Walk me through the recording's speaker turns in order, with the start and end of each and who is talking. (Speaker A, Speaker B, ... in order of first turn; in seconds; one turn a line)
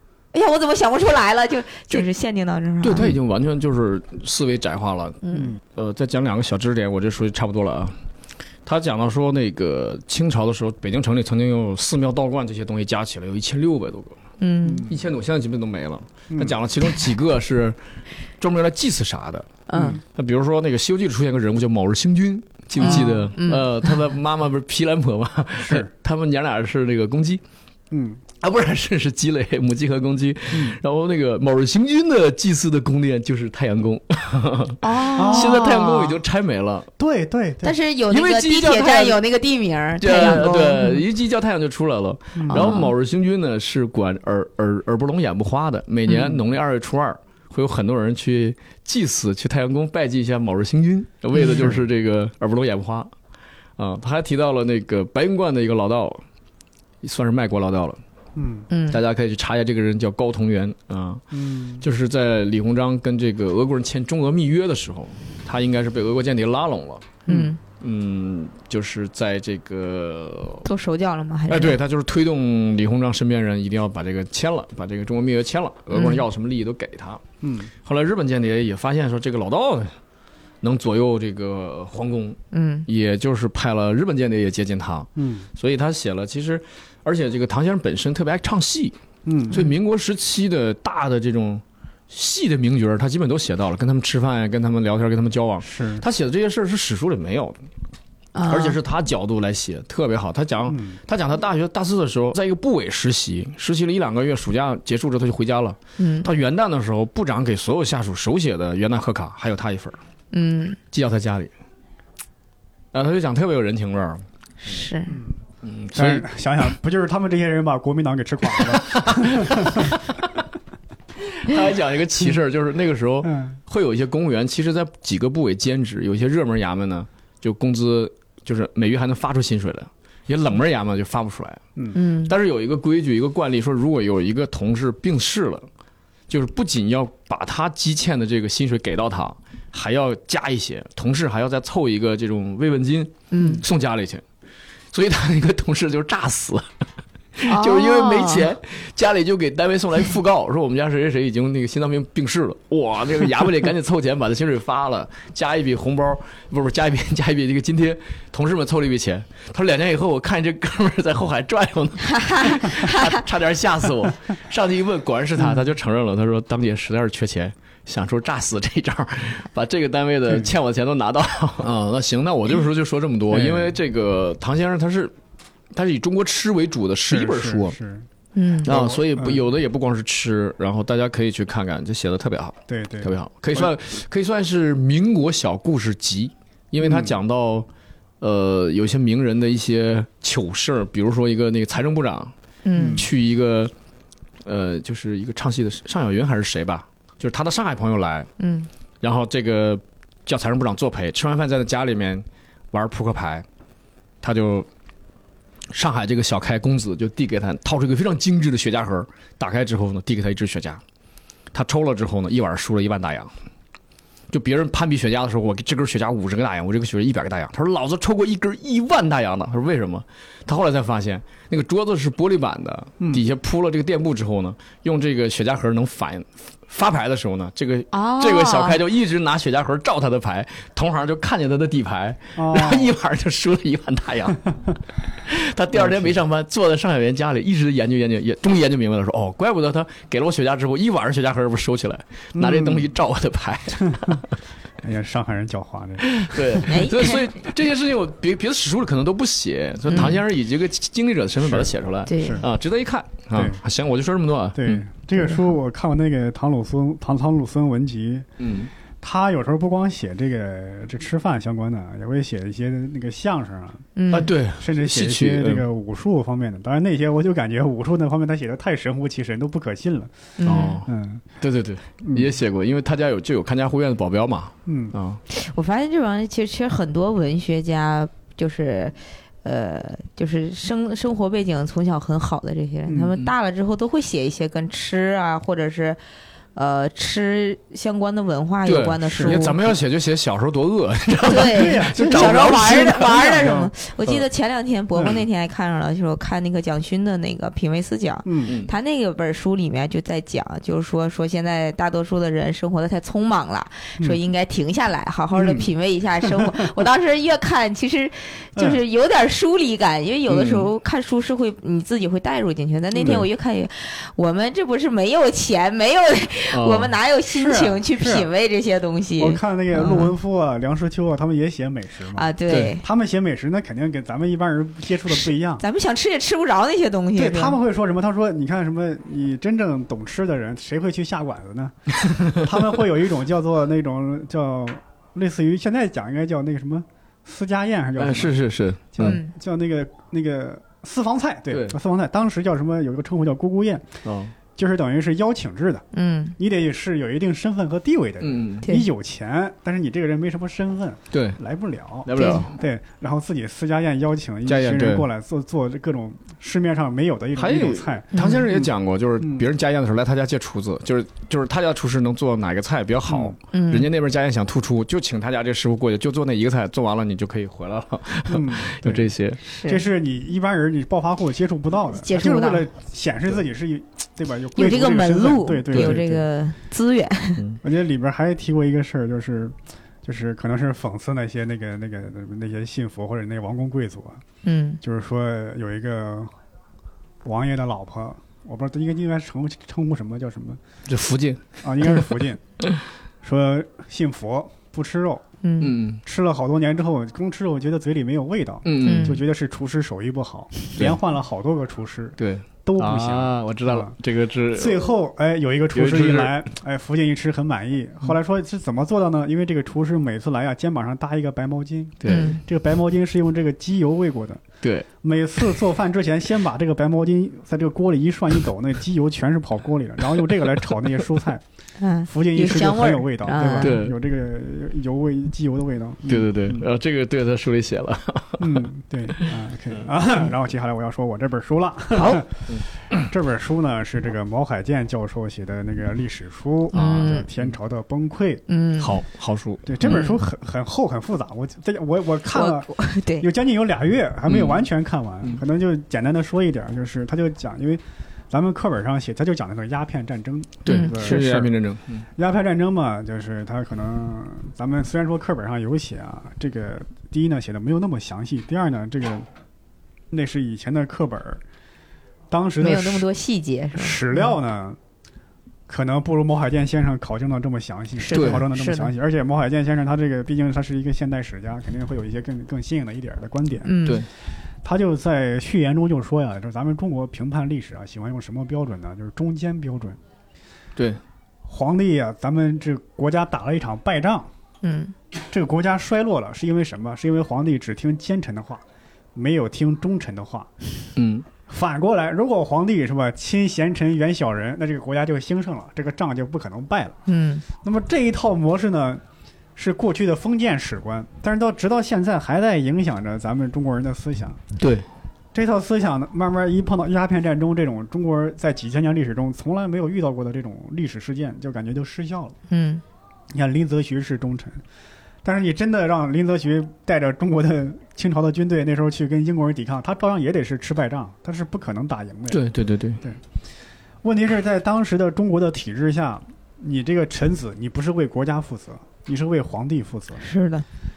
Speaker A: 0.3-3.1
Speaker B: 2.8-8.0
Speaker A: 5.2-5.5
Speaker C: 5.3-5.6
Speaker B: 8.7-14.2
Speaker A: 14.4-14.9
Speaker C: 14.6-15.0
Speaker B: 14.9-17.8
Speaker C: 16.3-16.6
Speaker B: 18.4-27.4
Speaker A: 19.7-20.0
Speaker C: 19.7-20.0
Speaker A: 22.8-24.0
Speaker C: 22.8-23.1
Speaker C: 25.6-25.9
Speaker C: 27.9-28.2
Speaker B: 28.4-36.9
Speaker C: 30.5-30.8
Speaker A: 34.8-36.2
Speaker C: 35.1-35.8
Speaker C: 37.0-37.8
Speaker A: 37.6-41.0
Speaker B: 38.1-39.2
Speaker B: 40.0-53.1
Speaker C: 42.4-42.8
Speaker A: 42.5-42.9
Speaker A: 46.1-46.4
Speaker A: 51.4-51.7
Speaker B: 53.8-56.2
Speaker B: 57.0-58.0
Speaker C: 58.4-58.7
Speaker A: 58.7-59.0
Speaker B: 58.9-61.2
Speaker C: 61.3-61.9
Speaker B: 61.8-67.2
Speaker A: 67.3-67.6
Speaker C: 67.3-67.5
Speaker B: 67.8-70.7
Speaker A: 70.7-71.8
Speaker B: 71.5-77.2
Speaker A: 75.9-76.2
Speaker C: 77.4-77.7
Speaker B: 77.8-79.9
Speaker B: 80.6-89.0
Speaker A: 82.5-82.9
Speaker C: 85.2-85.5
Speaker C: 89.3-89.6
Speaker B: 89.5-97.6
Speaker C: 95.6-96.0
Speaker A: 98.3-98.8
Speaker B: 98.5-110.0
Speaker C: 100.7-101.0
Speaker A: 106.0-106.3
Speaker A: 110.3-110.8
Speaker B: 110.9-111.5
Speaker B: 112.9-114.8
Speaker A: 114.6-115.2
Speaker C: 115.1-115.4
Speaker B: 115.6-116.3
Speaker C: 115.9-120.0
Speaker B: 118.5-120.3
Speaker B: 121.2-131.6
Speaker C: 123.2-123.6
Speaker A: 131.9-132.3
Speaker B: 132.2-135.7
Speaker B: 136.3-144.2
Speaker A: 143.3-143.6
Speaker B: 144.9-146.7
Speaker B: 147.3-175.1
Speaker A: 147.5-148.5
Speaker A: 162.1-163.1
Speaker C: 165.4-165.7
Speaker C: 173.3-173.8
Speaker B: 175.7-177.8
Speaker C: 177.1-178.1
Speaker A: 178.3-178.7
Speaker B: 178.6-187.7
Speaker C: 178.7-179.4
Speaker C: 182.7-183.7
Speaker C: 186.8-187.2
Speaker B: 188.2-192.3
Speaker A: 192.7-193.1
Speaker C: 192.8-193.1
Speaker B: 192.9-193.7
Speaker B: 194.4-198.3
Speaker A: 198.4-198.7
Speaker B: 199.0-203.5
Speaker B: 204.2-204.7
Speaker B: 205.7-210.8
Speaker B: 211.5-213.3
Speaker B: 214.3-234.4
Speaker A: 227.9-228.8
Speaker C: 232.4-232.9
Speaker B: 235.2-244.3
Speaker C: 235.7-236.2
Speaker C: 242.3-242.9
Speaker C: 244.8-246.7
Speaker B: 246.2-254.8
Speaker A: 246.7-247.3
Speaker A: 249.9-250.2
Speaker C: 251.4-252.4
Speaker A: 252.1-252.4
Speaker C: 253.3-253.6
Speaker C: 254.6-258.3
Speaker B: 258.4-258.7
Speaker C: 259.0-263.9
Speaker A: 264.0-264.3
Speaker B: 264.1-265.6
Speaker C: 264.5-271.2
Speaker A: 270.4-270.8
Speaker B: 270.4-275.2
Speaker C: 272.0-272.3
Speaker C: 274.7-274.9
Speaker A: 275.3-286.0
Speaker C: 282.9-283.1
Speaker A: 286.6-289.6
Speaker B: 288.6-293.5
Speaker C: 289.1-289.4
Speaker A: 291.3-320.1
Speaker C: 291.3-293.7
Speaker C: 294.9-295.2
Speaker C: 298.2-298.5
Speaker B: 298.5-298.7
Speaker C: 305.3-305.7
Speaker B: 310.3-310.7
Speaker C: 313.0-313.2
Speaker B: 316.5-316.9
Speaker C: 317.3-318.3
Speaker C: 319.2-325.6
Speaker A: 322.1-322.8
Speaker B: 322.5-322.8
Speaker A: 325.1-327.6
Speaker C: 327.1-338.4
Speaker B: 338.0-339.2
Speaker C: 338.9-343.9
Speaker A: 339.0-339.3
Speaker B: 341.5-341.8
Speaker B: 344.0-344.3
Speaker C: 344.6-345.9
Speaker A: 345.9-346.4
Speaker C: 346.4-359.5
Speaker B: 348.2-348.7
Speaker B: 351.1-351.4
Speaker B: 352.1-352.6
Speaker A: 352.1-352.5
Speaker B: 354.5-355.1
Speaker B: 357.4-369.4
Speaker A: 358.1-358.5
Speaker C: 363.1-363.4
Speaker A: 363.5-363.9
Speaker C: 368.3-369.1
Speaker A: 369.5-369.8
Speaker C: 369.6-376.2
Speaker A: 371.9-372.6
Speaker A: 374.6-377.4
Speaker B: 375.7-376.0
Speaker C: 377.6-384.2
Speaker A: 384.4-384.8
Speaker C: 384.8-386.3
Speaker C: 387.2-390.6
Speaker B: 390.9-392.2
Speaker C: 391.6-392.4
Speaker C: 393.2-395.2
Speaker A: 395.4-395.8
Speaker B: 395.6-396.0
Speaker C: 396.0-404.0
Speaker B: 398.6-399.2
Speaker A: 398.8-399.2
Speaker B: 402.2-404.9
Speaker C: 404.5-414.4
Speaker B: 405.7-406.4
Speaker B: 412.0-412.4
Speaker A: 412.1-412.4
Speaker B: 414.6-414.9
Speaker C: 415.0-421.4
Speaker A: 421.8-423.8
Speaker C: 422.1-426.7
Speaker B: 423.6-424.0
Speaker B: 426.1-429.8
Speaker C: 428.4-438.4
Speaker B: 432.0-432.6
Speaker A: 436.7-437.3
Speaker B: 436.7-437.5
Speaker A: 438.5-439.0
Speaker B: 438.8-440.2
Speaker C: 439.7-451.5
Speaker A: 439.8-440.2
Speaker A: 442.3-443.3
Speaker B: 444.3-444.7
Speaker B: 450.6-452.1
Speaker A: 450.7-451.2
Speaker C: 452.2-459.3
Speaker C: 460.1-461.4
Speaker C: 462.3-463.1
Speaker A: 462.6-464.3
Speaker C: 463.8-464.8
Speaker C: 465.7-473.9
Speaker A: 468.0-468.9
Speaker B: 468.1-468.4
Speaker A: 473.6-474.1
Speaker C: 474.6-480.0
Speaker B: 480.8-481.0
Speaker C: 481.4-484.3
Speaker A: 484.6-484.9
Speaker C: 485.3-488.6
Speaker C: 489.1-490.5
Speaker B: 491.0-491.3
Speaker C: 491.5-497.0
Speaker A: 497.1-497.4
Speaker C: 497.6-499.0
Speaker C: 499.6-504.4
Speaker B: 504.6-504.9
Speaker C: 505.3-512.4
Speaker A: 512.5-512.8
Speaker C: 513.3-514.6
Speaker C: 515.2-522.4
Speaker B: 522.3-523.0
Speaker C: 524.0-530.3
Speaker A: 530.2-530.6